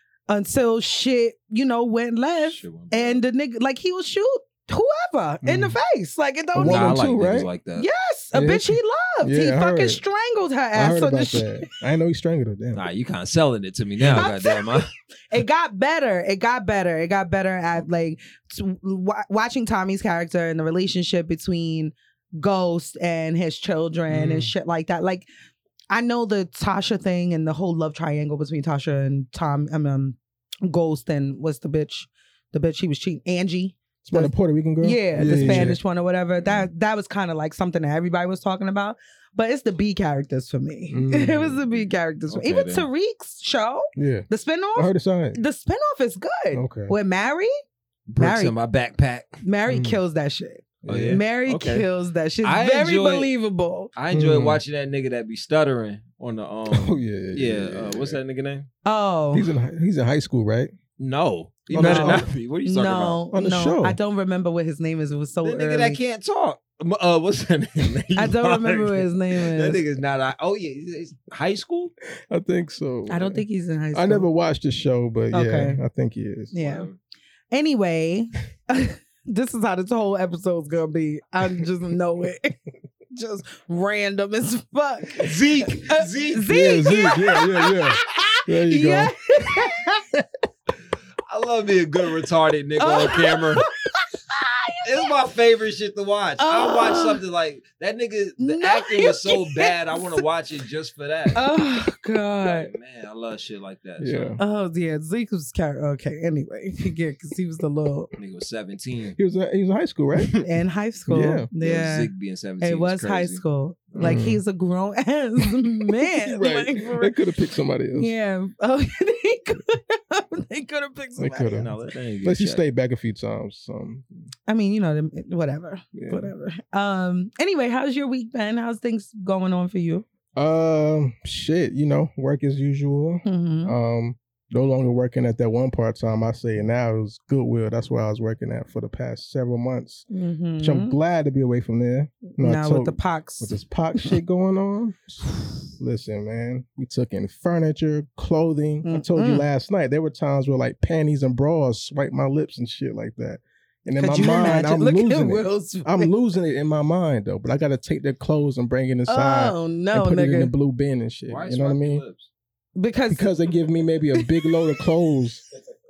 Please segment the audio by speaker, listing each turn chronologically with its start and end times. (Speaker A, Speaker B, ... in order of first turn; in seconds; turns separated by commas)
Speaker A: 0.3-7.0, Speaker B: 2.5-3.2, Speaker C: 5.4-5.8, Speaker C: 6.5-7.5, Speaker B: 6.6-7.9, Speaker A: 7.8-11.7, Speaker C: 8.3-10.0, Speaker C: 10.7-12.8, Speaker B: 12.7-14.9, Speaker A: 14.0-25.3, Speaker C: 24.1-24.5, Speaker A: 25.9-47.5, Speaker C: 34.0-35.8, Speaker B: 35.2-35.7, Speaker C: 40.9-41.7, Speaker B: 42.3-42.9, Speaker C: 44.0-45.4, Speaker C: 46.5-46.9, Speaker B: 48.1-49.4, Speaker A: 48.2-48.5, Speaker A: 49.4-53.9, Speaker C: 49.7-50.0, Speaker C: 50.8-51.2, Speaker B: 50.8-51.9, Speaker B: 52.4-53.3, Speaker B: 54.0-58.7, Speaker C: 54.1-54.6, Speaker C: 56.7-58.2, Speaker A: 58.8-59.5, Speaker C: 59.3-60.7, Speaker B: 61.0-63.2, Speaker C: 61.7-62.3, Speaker A: 61.8-66.0, Speaker C: 63.3-64.0, Speaker B: 65.4-71.9, Speaker A: 68.2-69.8, Speaker C: 72.3-73.4, Speaker A: 73.1-74.3, Speaker C: 73.9-76.5, Speaker A: 75.3-75.8, Speaker A: 76.5-76.9, Speaker B: 76.6-77.0, Speaker A: 77.5-90.2, Speaker B: 85.2-86.5, Speaker C: 86.5-89.1, Speaker B: 91.3-93.7, Speaker A: 92.8-95.1, Speaker B: 94.8-101.5, Speaker A: 96.4-97.2, Speaker A: 98.4-100.2, Speaker A: 101.3-102.7, Speaker B: 102.4-104.4, Speaker C: 104.0-104.4, Speaker A: 104.4-108.1, Speaker B: 108.2-109.2, Speaker C: 109.2-110.3, Speaker B: 110.2-110.4, Speaker A: 110.4-112.1, Speaker C: 111.1-111.5, Speaker B: 111.6-113.4, Speaker A: 112.6-117.2, Speaker C: 114.0-114.4, Speaker C: 116.1-118.1, Speaker A: 118.0-121.7, Speaker C: 121.2-124.0, Speaker B: 121.5-122.6, Speaker A: 124.5-130.0, Speaker C: 125.9-126.3, Speaker C: 130.3-140.1, Speaker A: 133.2-133.7, Speaker A: 140.1-140.9, Speaker C: 140.6-162.0, Speaker A: 142.3-144.2, Speaker A: 148.8-149.4, Speaker A: 153.9-156.1, Speaker A: 159.1-160.5, Speaker B: 161.3-162.3, Speaker A: 162.8-163.5, Speaker C: 163.1-165.4, Speaker A: 164.1-164.8